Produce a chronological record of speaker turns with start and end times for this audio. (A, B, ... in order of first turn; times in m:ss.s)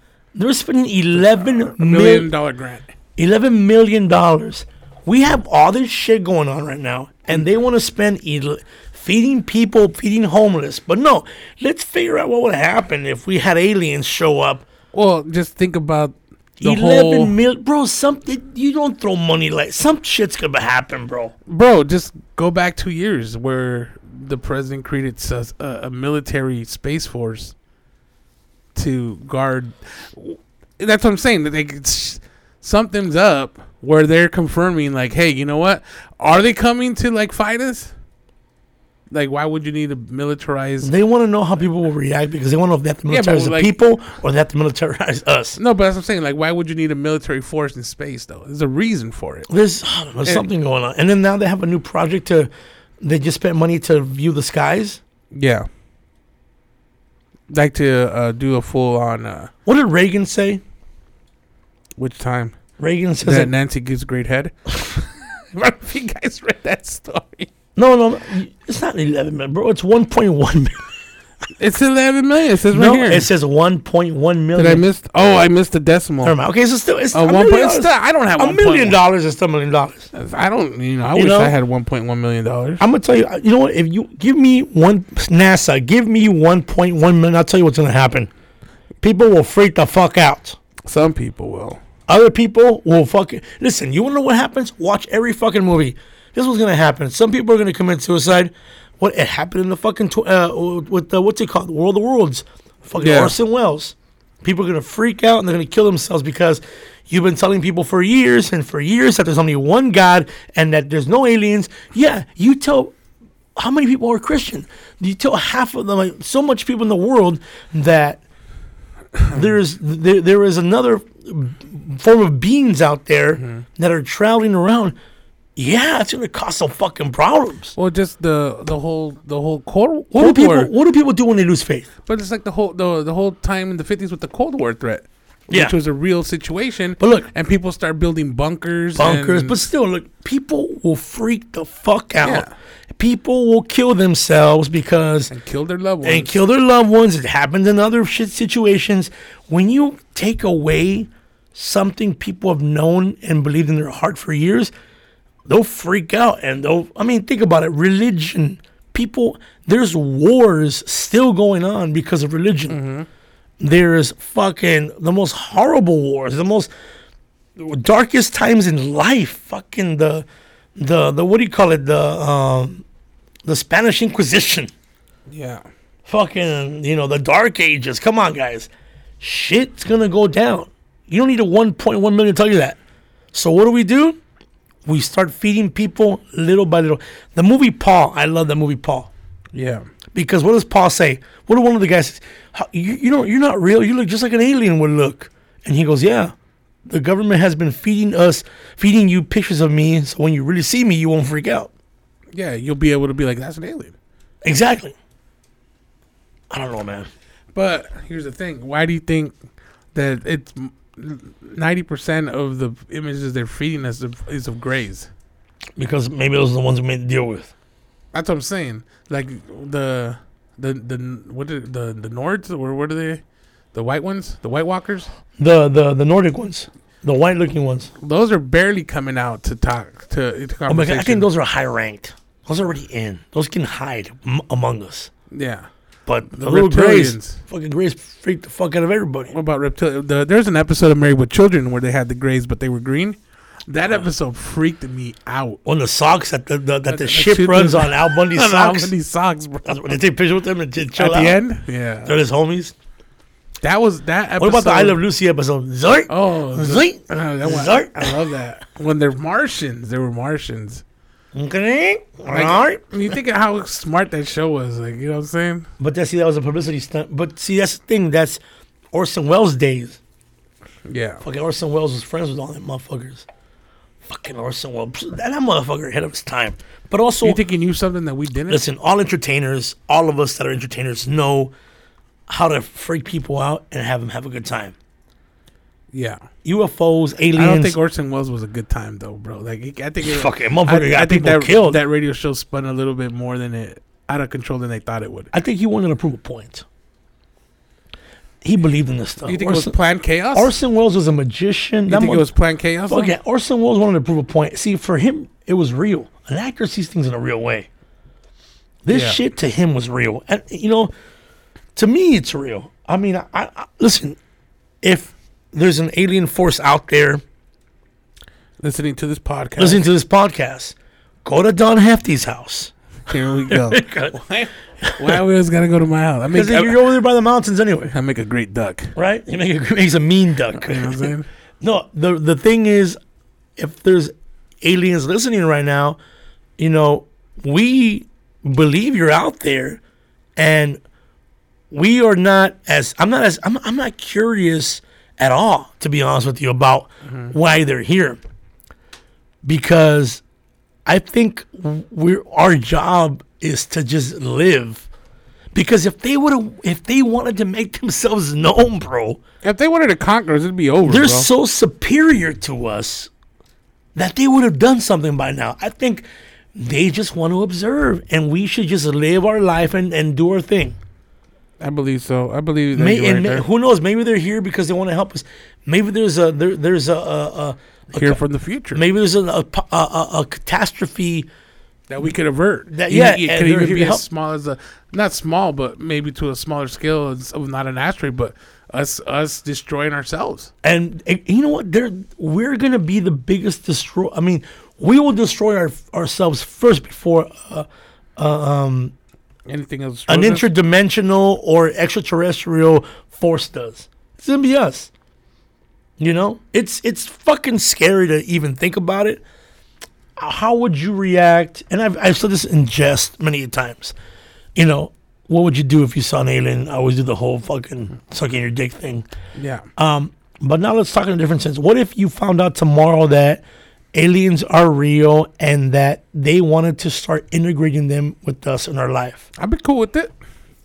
0:00.4-0:02.3 A
0:01.2-0:02.9 B
0:03.2-0:14.6 A
0:14.9-0:17.4 B
0:16.6-0:21.3 A
0:21.5-0:27.6 B
0:28.8-0:37.9 B
0:39.1-0:40.9 B
0:40.8-0:45.6 A
0:43.1-0:43.8 B
0:45.6-0:49.5 B
0:49.5-0:52.5 A
0:53.0-0:55.0 A
0:55.3-0:55.7 B
0:57.5-0:59.5 B
0:59.7-1:00.6 A
1:02.0-1:02.6 B
1:02.8-1:03.6 A
1:03.2-1:07.5 B
1:07.8-1:10.9 A
1:11.6-1:13.3 B
1:12.7-1:14.8 A
1:14.6-1:16.4 B
1:16.2-1:20.1 A
1:17.1-1:19.0 B
1:20.1-1:22.8 B
1:21.2-1:21.5 A
1:22.8-1:28.3 A
1:29.0-1:30.6 A
1:30.8-1:31.8 B
1:32.1-1:53.0 A
1:43.0-1:43.4 B
1:53.6-1:58.2 A
1:59.3-2:05.0 A
2:03.4-2:03.6 B
2:05.6-2:07.7 A
2:07.8-2:10.7 B
2:10.1-2:11.9 A
2:12.1-2:19.6 B
2:15.5-2:15.8 A
2:17.0-2:17.3 A
2:19.0-2:25.3 A
2:22.2-2:22.5 B
2:25.3-2:26.4 B
2:26.0-2:34.7 A
2:35.5-2:42.8 A
2:42.7-2:43.1 B
2:43.6-2:46.7 A
2:47.6-2:52.8 A
2:53.4-2:54.7 A
2:55.3-2:55.6 B
2:56.1-2:58.7 A
2:59.2-3:02.8 A
3:03.3-3:04.2 A
3:04.9-3:09.1 A
3:09.5-3:09.9 B
3:10.1-3:16.3 A
3:16.9-3:21.7 A
3:22.3-3:24.0 B
3:24.4-3:25.0 A
3:26.5-3:27.1 A
3:27.6-3:29.4 B
3:29.9-3:35.1 B
3:35.8-3:37.5 A
3:38.1-3:43.2 B
3:43.7-3:45.1 B
3:45.4-3:47.9 A
3:48.0-3:51.3 B
3:50.7-3:55.1 A
3:55.3-3:55.7 B
3:56.1-3:59.3 A
3:56.3-3:57.4 B
3:59.3-4:05.6 B
4:05.7-4:08.9 A
4:06.9-4:10.0 B
4:09.6-4:11.4 A
4:10.9-4:12.2 B
4:12.0-4:12.8 A
4:13.6-4:15.0 B
4:14.4-4:18.2 A
4:16.1-4:20.8 B
4:21.3-4:23.1 A
4:22.3-4:25.7 B
4:25.8-4:28.4 A
4:28.9-4:30.0 A
4:30.9-4:31.2 B
4:31.2-4:33.3 A
4:34.0-4:37.4 A
4:37.2-4:38.6 B
4:38.5-4:41.5 A
4:42.3-4:44.8 A
4:45.9-4:46.2 B
4:46.4-4:47.8 A
4:47.4-4:55.3 B
4:50.0-4:51.8 A
4:55.3-4:56.6 A
4:58.4-4:59.8 A
4:59.3-5:00.5 B
5:00.3-5:02.3 A
5:01.9-5:03.2 B
5:02.9-5:07.7 A
5:08.8-5:10.9 A
5:08.9-5:09.2 B
5:11.8-5:14.2 A
5:14.8-5:17.2 A
5:18.6-5:19.8 B
5:19.6-5:22.7 A
5:23.1-5:26.9 B
5:23.5-5:24.2 A
5:24.8-5:25.2 A
5:26.3-5:27.9 A
5:27.9-5:28.9 B
5:29.0-5:33.0 A
5:30.5-5:31.3 B
5:33.6-5:36.0 A
5:36.6-5:39.8 A
5:40.4-5:40.8 A
5:41.7-5:48.2 A
5:47.0-5:47.4 B
5:49.4-5:50.2 A
5:50.9-5:54.9 A
5:55.5-5:59.2 A
5:59.4-6:01.3 B
6:00.8-6:03.1 A
6:04.0-6:10.8 A
6:11.6-6:13.4 B
6:12.7-6:18.2 A
6:17.9-6:18.8 B
6:18.7-6:21.3 A
6:21.9-6:30.5 B
6:22.7-6:24.0 A
6:30.6-6:38.9 A
6:39.5-6:40.5 B
6:40.1-6:44.9 A
6:46.0-6:49.2 A
6:50.2-6:53.9 A
6:54.6-6:59.1 A
6:59.4-6:59.7 B
6:59.8-7:09.2 A
7:09.4-7:10.1 B